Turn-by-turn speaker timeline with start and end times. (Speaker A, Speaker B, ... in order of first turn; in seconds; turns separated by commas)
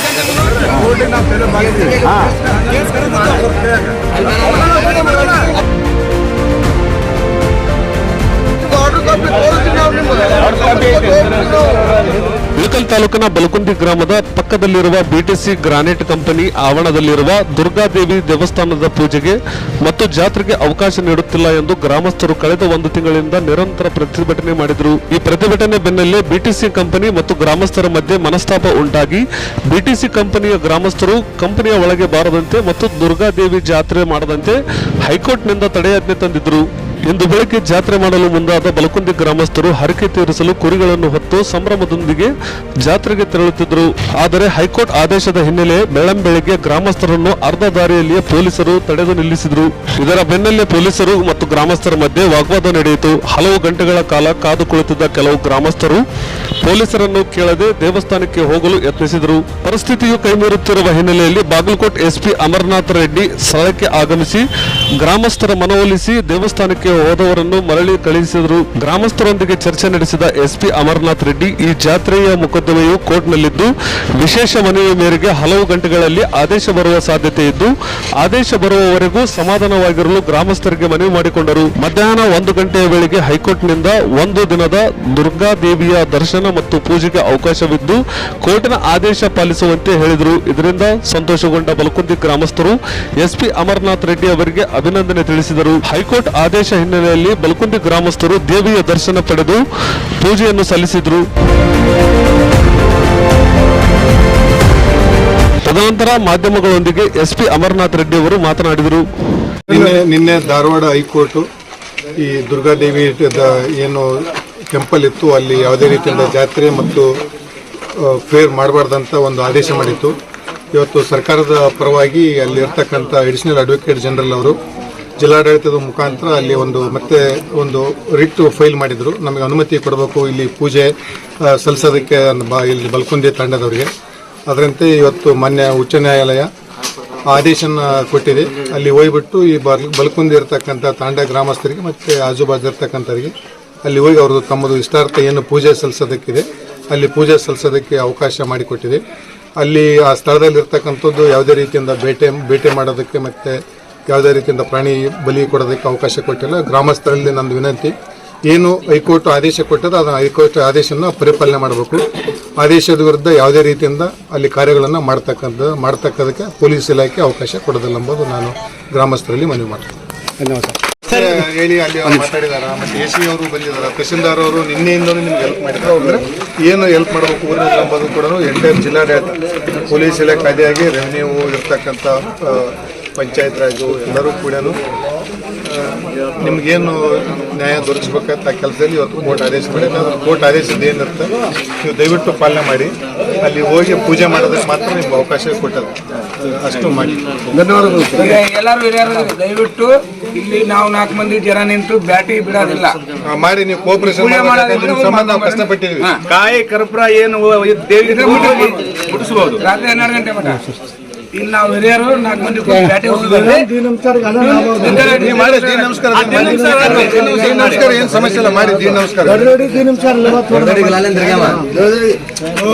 Speaker A: 0.8-2.3, Speaker A: 10.2-11.4, Speaker B: 12.5-56.0, Speaker B: 56.6-64.4, Speaker B: 65.0-99.6, Speaker B: 100.2-101.3, Speaker B: 105.6-109.0, Speaker C: 109.7-111.5, Speaker C: 112.2-117.1, Speaker C: 118.0-120.2, Speaker C: 120.7-124.6, Speaker C: 125.2-133.9, Speaker C: 134.5-136.5, Speaker C: 137.3-143.3, Speaker C: 143.8-149.0, Speaker C: 149.6-157.9, Speaker C: 158.5-162.0, Speaker C: 162.6-169.9, Speaker C: 170.5-184.8, Speaker C: 185.7-197.4, Speaker A: 197.7-198.1, Speaker D: 198.1-203.0, Speaker C: 203.2-206.1, Speaker D: 204.0-206.2, Speaker A: 206.2-209.7, Speaker D: 208.0-208.8, Speaker D: 209.6-210.7, Speaker D: 211.3-217.9, Speaker A: 213.5-215.2, Speaker C: 215.2-219.7, Speaker A: 216.1-218.0, Speaker A: 219.3-222.1